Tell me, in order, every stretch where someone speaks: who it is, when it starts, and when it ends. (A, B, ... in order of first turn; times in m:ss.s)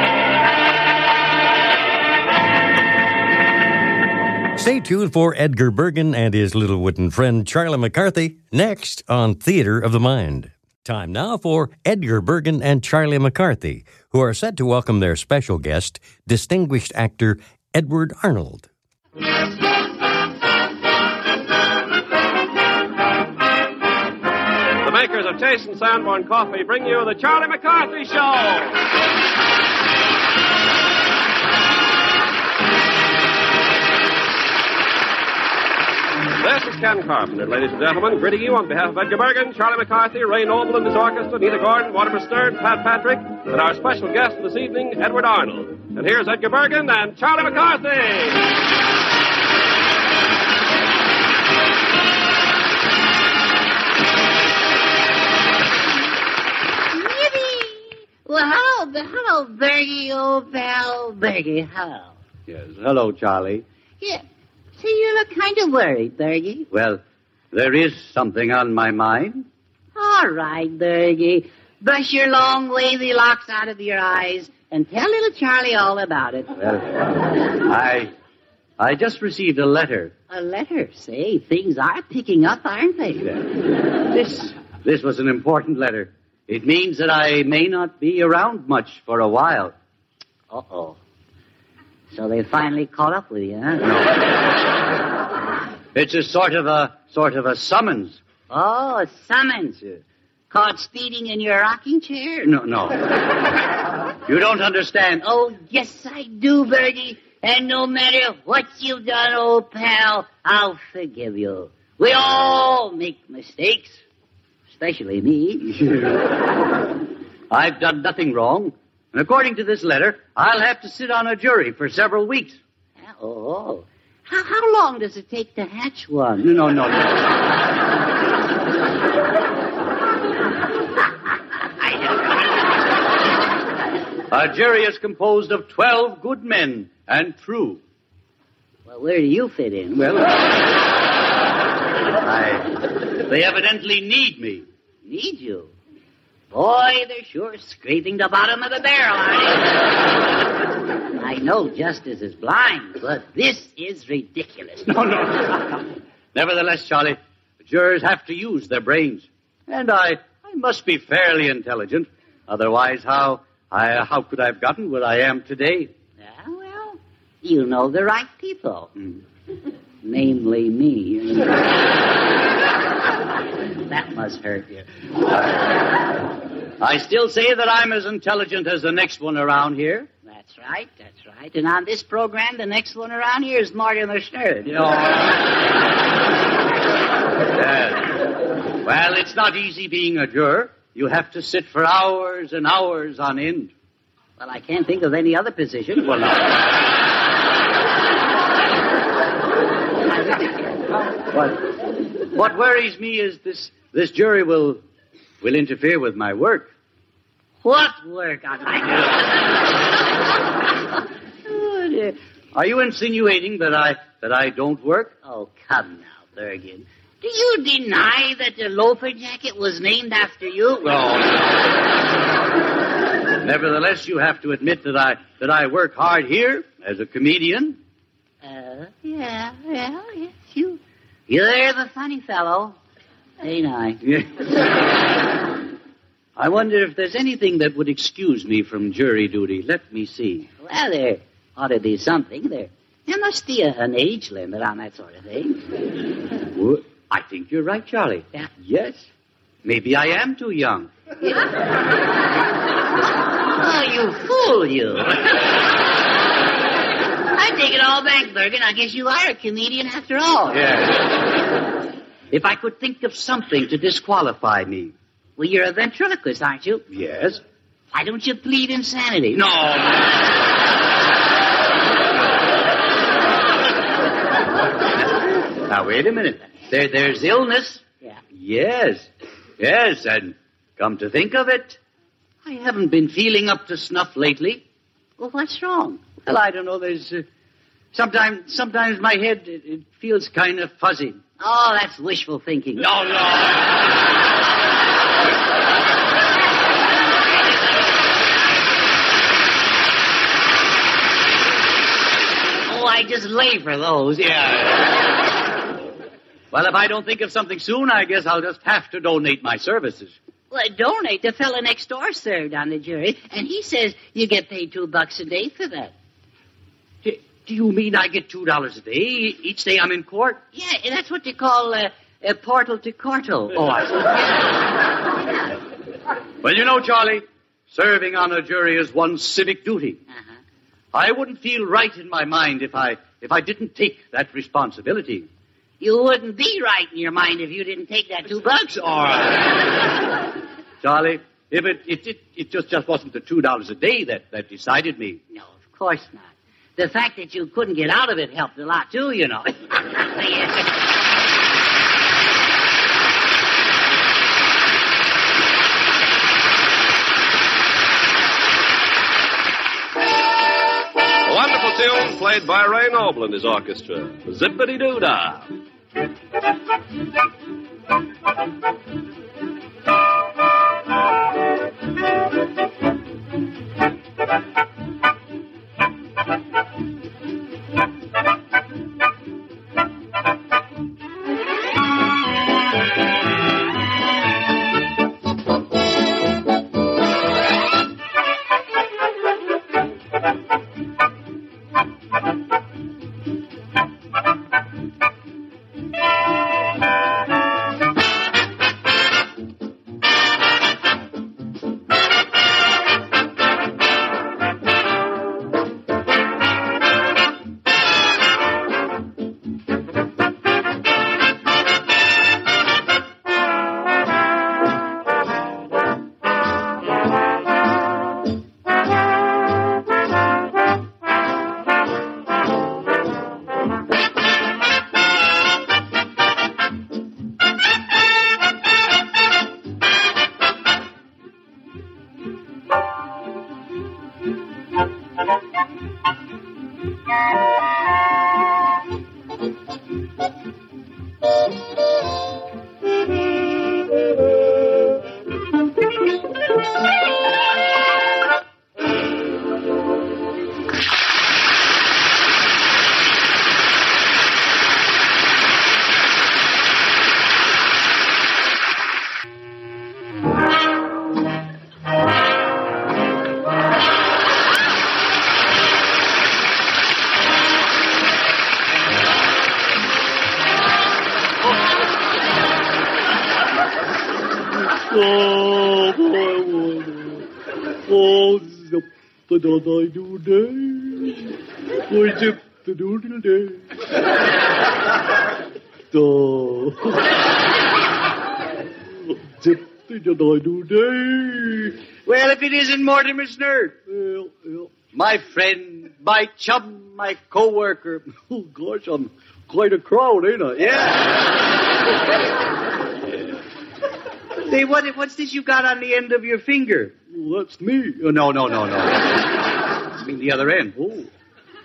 0:04.6-0:18.7 A
0:24.8-0:28.8 B
0:36.4-0:48.5 B
0:56.9-1:02.1 C
1:02.5-1:03.6 D
1:04.8-1:06.7 C
1:06.7-1:07.0 D
1:07.5-1:09.4 D
1:10.0-1:16.5 C
1:16.6-1:18.1 D
1:18.8-1:20.1 D
1:20.3-1:23.3 C
1:24.1-1:29.7 D
1:30.5-1:31.0 C
1:32.1-1:34.0 C
1:35.9-1:38.2 D
1:38.5-1:40.0 C
1:40.5-1:42.5 C
1:42.4-1:43.0 D
1:44.2-1:45.2 D
1:45.2-1:54.0 C
1:54.8-1:55.9 C
1:55.8-1:56.2 D
1:57.5-2:02.6 D
2:03.0-2:06.5 C
2:06.4-2:07.3 D
2:14.3-2:17.8 D
2:18.9-2:20.1 C
2:19.9-2:20.4 D
2:22.2-2:24.6 D
2:25.0-2:25.7 C
2:26.5-2:30.0 C
2:31.1-2:35.1 C
2:34.8-2:35.8 D
2:36.3-2:45.9 D
2:46.2-2:48.9 C
2:50.0-2:51.8 C
2:53.9-2:54.8 C
2:56.8-3:00.1 D
3:00.3-3:04.7 C
3:04.6-3:05.4 D
3:07.5-3:13.7 D
3:14.4-3:16.3 C
3:16.1-3:16.5 D
3:20.1-3:20.5 C
3:21.3-3:21.6 D
3:22.2-3:24.8 D
3:25.4-3:26.7 D
3:27.6-3:29.6 C
3:31.5-3:32.2 C
3:32.5-3:35.1 D
3:35.2-3:41.1 C
3:40.9-3:41.5 D
3:43.4-3:47.8 D
3:48.4-3:52.8 C
3:53.4-3:54.0 C
3:54.0-3:54.3 D
3:56.4-4:00.5 D
4:00.6-4:05.7 C
4:06.5-4:09.1 D
4:09.6-4:10.9 D
4:13.5-4:15.2 C
4:17.3-4:20.6 C
4:20.5-4:21.0 D
4:22.3-4:24.9 D
4:25.4-4:26.8 C
4:26.9-4:27.4 D
4:27.9-4:29.4 C
4:29.3-4:30.1 D
4:35.2-4:41.8 D
4:42.4-4:44.6 D
4:45.2-4:46.1 C
4:46.1-4:47.2 D
4:47.9-4:51.2 D
4:51.4-4:53.1 C
4:52.8-4:53.6 D
5:02.7-5:04.3 C
5:04.3-5:04.8 D
5:06.5-5:10.2 D
5:10.5-5:15.9 C
5:17.0-5:20.4 D
5:20.5-5:23.6 C
5:23.5-5:24.4 D
5:26.4-5:30.0 D
5:30.9-5:35.3 D
5:35.8-5:39.2 C
5:38.9-5:39.5 D
5:40.8-5:45.2 D
5:45.3-5:50.7 C
6:01.2-6:05.4 B
7:54.7-7:57.3 E
7:57.8-8:01.2 E
8:01.9-8:03.7 E
8:05.9-8:07.2 E
8:09.0-8:11.8 E
8:12.0-8:13.7 D
8:13.9-8:14.8 E
8:14.9-8:18.1 D
8:18.1-8:21.0 E
8:20.6-8:21.1 D
8:24.4-8:26.9 D
8:27.1-8:28.1 E
8:28.0-8:29.2 D
8:29.9-8:31.0 D